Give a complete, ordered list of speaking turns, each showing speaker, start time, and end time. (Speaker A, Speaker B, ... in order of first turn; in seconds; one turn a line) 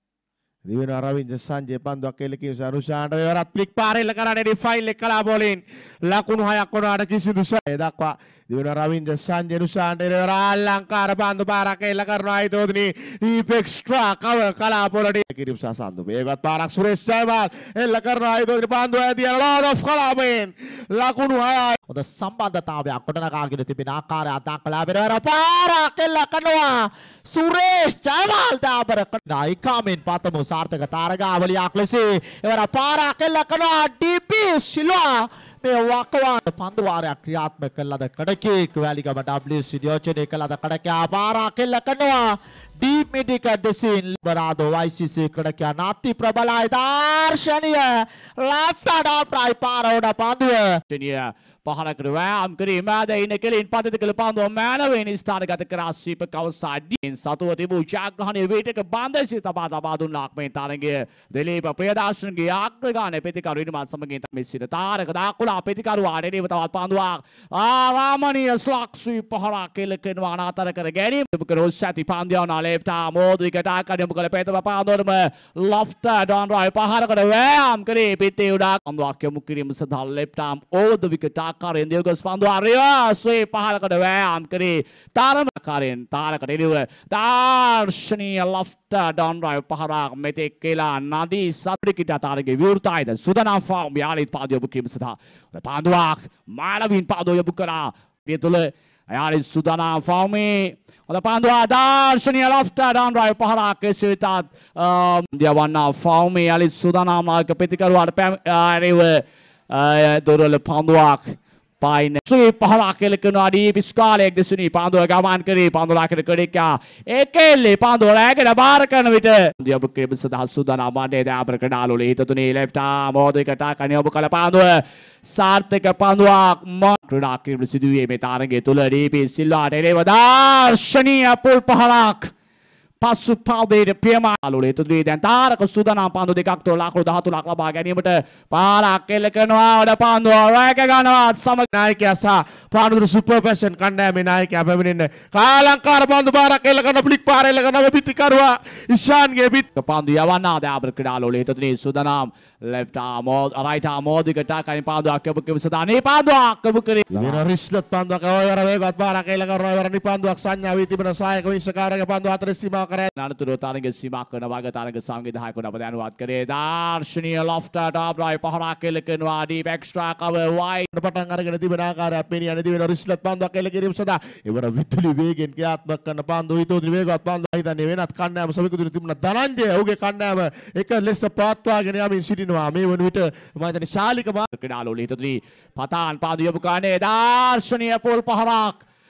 Speaker A: 0.6-21.8
Speaker B: 21.9-50.8
Speaker C: 50.9-132.3
Speaker C: 133.0-141.7
Speaker A: 141.7-149.6
Speaker C: 149.7-157.4
Speaker A: 157.1-163.1
Speaker C: 163.2-170.9
Speaker A: 170.9-184.4
Speaker C: 184.5-188.8